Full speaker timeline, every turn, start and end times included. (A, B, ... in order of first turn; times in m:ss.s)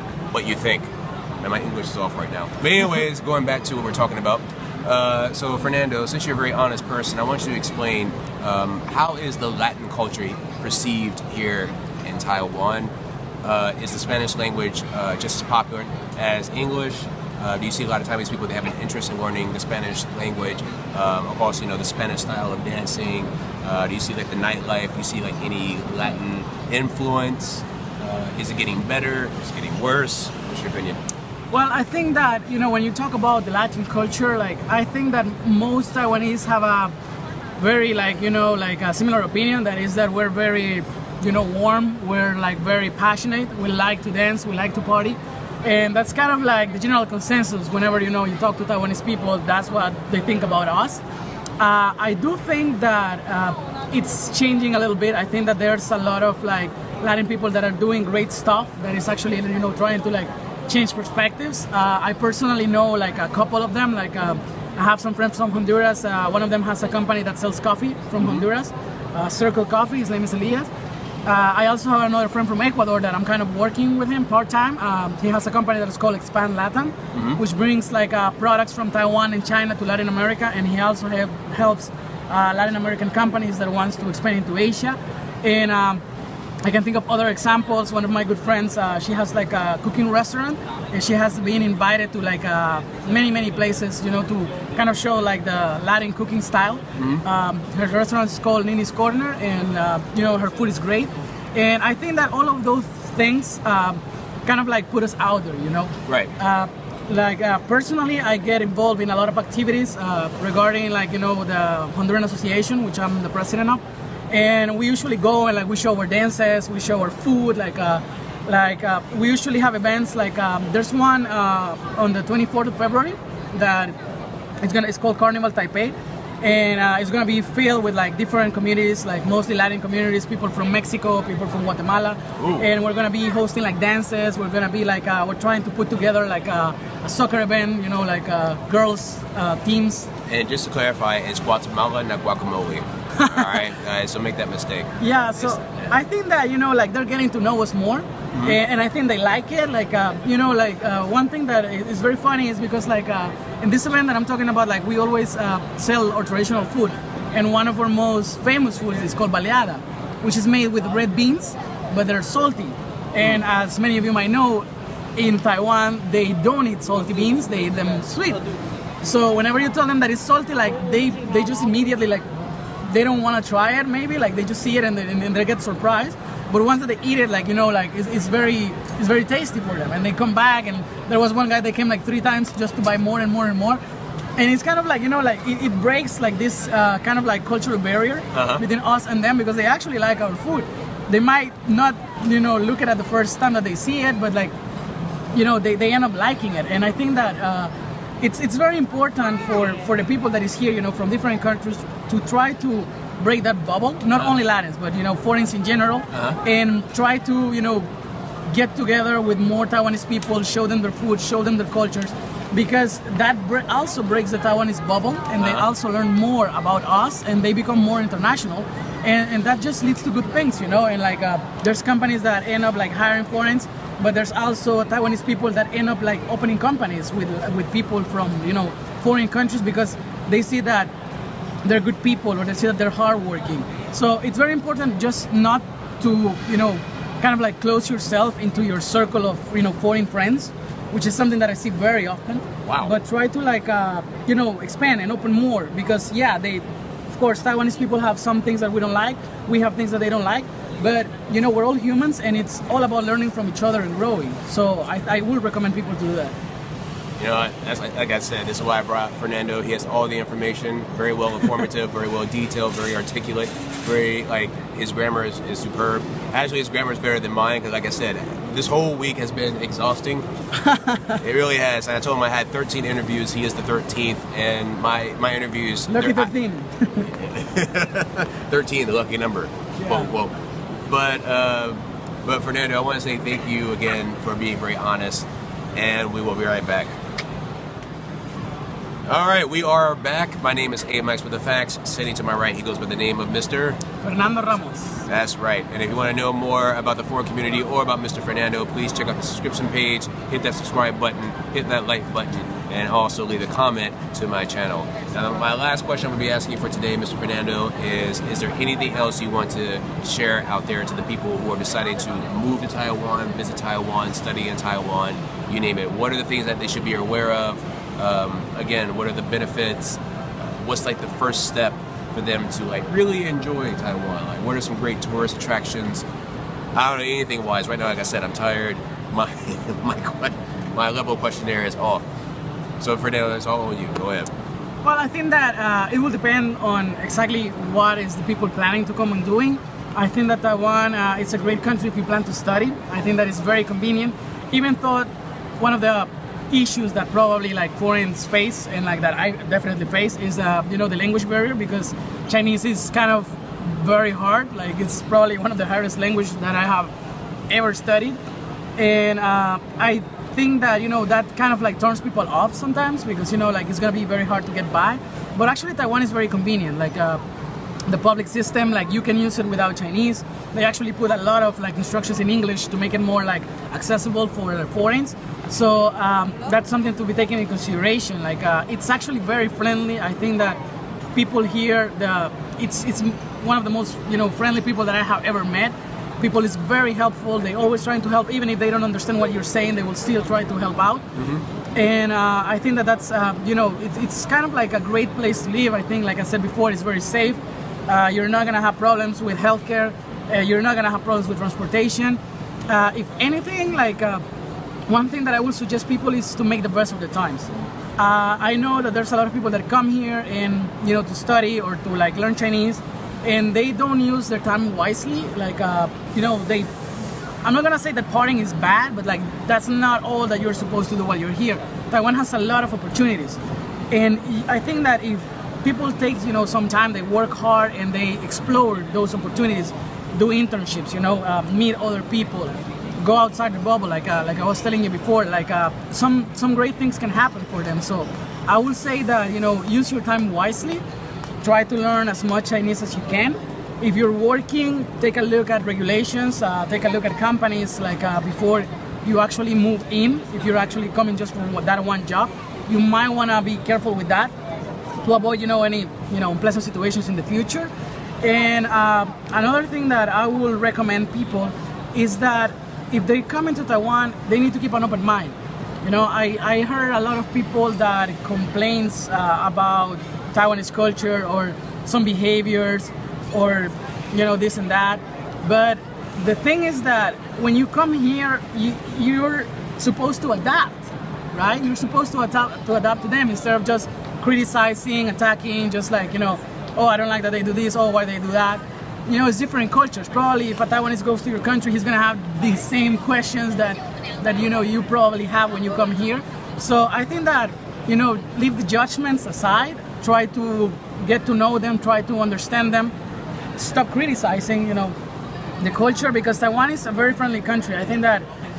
0:00.3-0:00.9 A
0:01.4-0:12.9 A
0:13.4-0:31.0 A
0:31.5-0:36.9 B
0:37.6-0:51.0 B
0:51.6-1:10.7 B
1:08.2-1:08.4 A
1:11.2-1:26.0 B
1:17.1-1:17.4 A
1:26.6-2:04.0 B
1:37.0-1:37.2 A
2:04.6-2:20.1 B
2:12.4-2:12.7 A
2:20.3-2:25.9 A
2:23.2-2:23.6 B
2:25.0-2:44.6 B
2:28.3-2:28.6 A
2:45.2-2:48.4 B
2:49.0-2:52.3 B
2:52.8-3:03.8 B
3:04.4-3:14.5 B
3:08.3-3:08.6 A
3:15.3-3:27.9 B
3:26.1-3:26.4 A
3:28.5-3:50.9 B
3:35.4-3:35.7 A
3:51.6-4:16.4 B
4:02.6-4:02.9 A
4:17.2-4:30.3 A
4:30.6-4:31.2 B
4:31.2-4:36.3 A
4:35.9-4:37.1 B
4:37.0-4:40.3 A
4:39.8-4:40.1 B
4:40.9-4:46.9 A
4:49.1-4:53.8 A
4:54.0-4:55.0 B
4:55.1-5:26.0 A
5:26.7-5:32.0 A
5:32.8-5:34.3 A
5:34.8-5:56.9 B
5:57.5-5:58.2 B
5:58.8-6:07.2 B
6:07.9-6:20.6 B
6:21.2-6:31.0 B
6:31.2-6:31.4 A
6:31.7-6:44.2 B
6:44.9-6:56.7 B
6:57.4-7:03.4 B
7:03.9-7:20.8 B
7:21.4-7:34.3 B
7:35.0-7:37.7 B
7:38.2-8:22.9 B
8:23.6-8:25.0 B
8:25.6-8:28.3 B